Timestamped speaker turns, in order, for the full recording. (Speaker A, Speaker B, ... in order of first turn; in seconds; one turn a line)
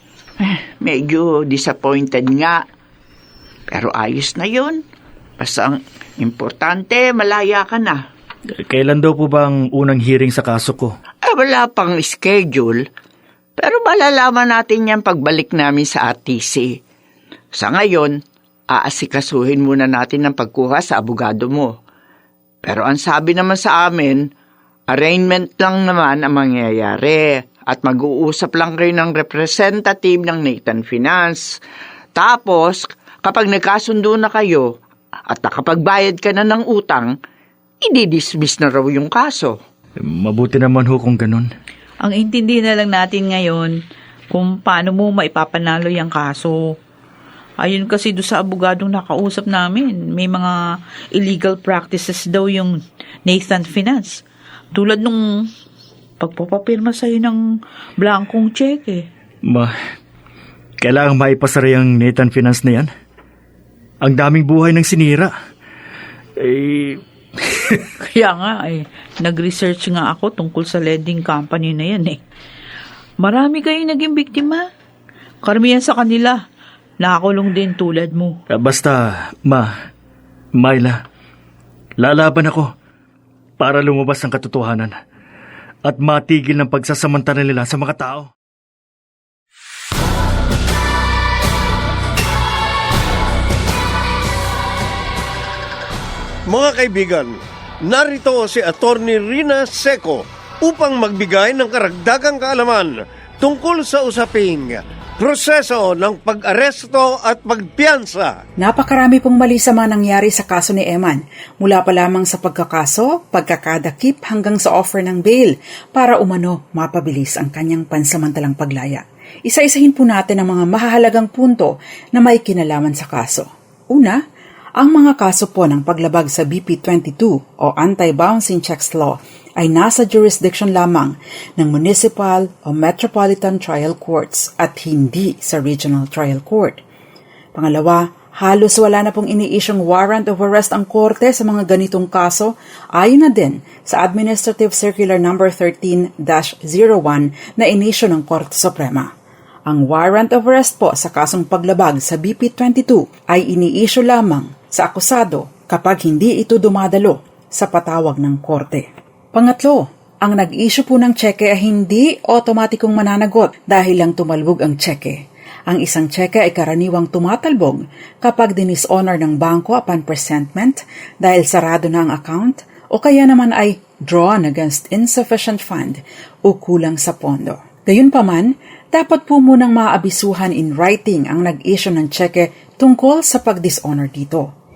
Speaker A: 0.4-2.6
Speaker A: 3.7-4.8
Speaker A: 5.4-8.0
Speaker B: 8.6-11.0
Speaker A: 11.2-12.9
Speaker A: 13.6-16.8
Speaker A: 17.5-21.7
Speaker A: 22.6-24.3
Speaker A: 24.9-31.6
Speaker A: 32.1-34.7
Speaker A: 35.3-37.1
Speaker A: 37.8-39.6
Speaker B: 40.0-41.5
Speaker C: 42.0-43.7
Speaker C: 44.3-46.6
Speaker C: 47.6-50.5
Speaker C: 51.1-52.8
Speaker C: 53.3-54.2
Speaker C: 54.7-55.5
Speaker C: 56.2-57.4
Speaker C: 58.0-59.1
Speaker B: 59.4-59.7
Speaker B: 60.8-62.9
Speaker B: 64.0-65.3
Speaker B: 66.4-67.9
Speaker C: 68.0-72.2
Speaker C: 73.2-74.7
Speaker C: 75.4-76.4
Speaker C: 77.0-78.4
Speaker B: 78.5-79.7
Speaker B: 80.5-81.0
Speaker B: 82.0-82.7
Speaker B: 83.6-85.0
Speaker B: 85.8-88.3
Speaker D: 96.5-108.4
Speaker E: 108.6-124.2
Speaker E: 124.8-136.8
Speaker E: 137.6-149.1
Speaker E: 149.7-184.5